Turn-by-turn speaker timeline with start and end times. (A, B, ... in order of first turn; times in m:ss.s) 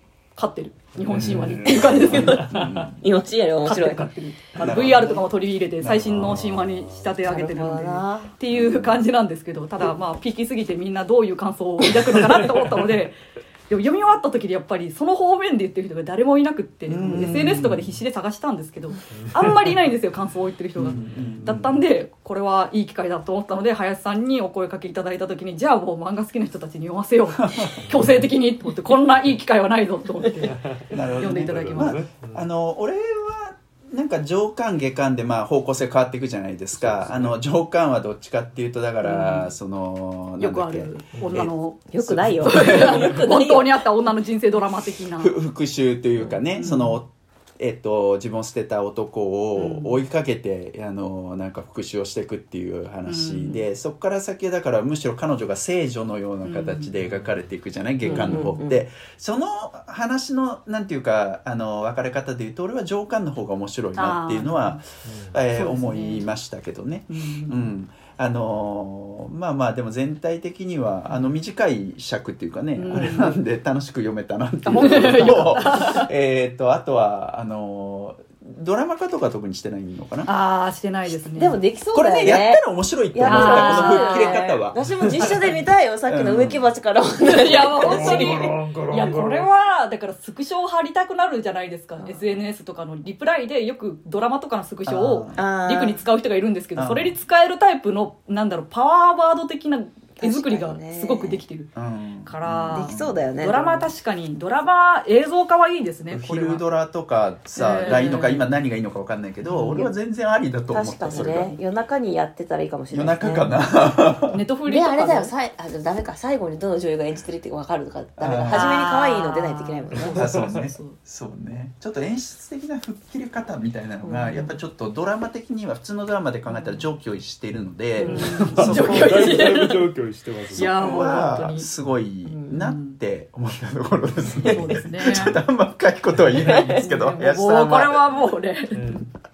0:00.4-0:02.9 A
0:01.0-0:02.6 B
0:01.1-0:03.0 C
0:01.6-0:04.1 D
0:03.6-0:32.0 A
0:04.6-0:05.3 C
0:05.8-0:06.5 C
0:06.1-0:07.1 B
0:07.2-0:08.3 D
0:08.5-0:09.0 C
0:12.3-0:12.8 B
0:16.9-0:17.9 C
0:19.1-0:19.8 B
0:20.8-0:21.8 C
0:20.9-0:21.7 B
0:27.4-0:27.8 C
0:27.8-0:28.3 B
0:30.4-0:32.5 B
0:30.9-0:41.5 C
0:36.8-0:37.4 B
0:39.0-0:39.5 A
0:40.4-0:45.4 A
0:41.2-0:41.4 B
0:41.9-0:43.8 D
0:42.0-0:43.0 C
0:45.2-1:20.3 C
0:46.5-0:47.0 A
0:49.6-0:50.0 A
0:53.1-0:53.6 A
0:56.4-0:56.9 A
0:57.0-0:57.4 B
0:58.0-0:58.6 A
0:58.1-0:58.8 D
1:04.0-1:04.8 A
1:05.0-1:05.4 B
1:05.5-1:06.3 A
1:07.1-1:07.7 A
1:12.8-1:13.4 A
1:14.7-1:15.6 D
1:14.7-1:16.1 A
1:20.2-1:21.6 A
1:21.4-1:28.6 D
1:21.9-1:25.3 C
1:23.2-1:24.6 A
1:24.8-1:25.1 B
1:26.1-1:26.6 C
1:27.2-1:41.7 A
1:27.8-1:29.5 B
1:32.0-1:32.3 D
1:34.9-1:35.4 C
1:35.4-1:36.0 D
1:36.8-1:37.2 C
1:40.2-1:41.4 D
1:41.8-1:43.2 C
1:42.2-1:46.6 A
1:42.7-1:43.9 D
1:46.1-1:51.6 C
1:47.6-1:48.4 A
1:47.9-1:48.4 D
1:49.5-1:49.9 D
1:50.7-1:53.5 D
1:51.1-1:51.6 A
1:52.9-1:54.4 C
1:54.3-1:55.3 A
1:54.7-2:00.3 D
1:58.2-1:58.7 C
1:58.4-2:01.0 A
1:59.9-2:00.6 B
2:00.1-2:09.5 C
2:04.0-2:04.4 D
2:08.0-2:08.3 D
2:08.0-2:09.9 A
2:08.1-2:11.3 B
2:10.5-2:11.7 A
2:10.6-2:18.1 C
2:12.3-2:12.6 D
2:12.5-2:13.0 A
2:14.4-2:15.4 A
2:16.4-2:16.8 D
2:16.7-2:19.1 A
2:18.7-2:19.1 B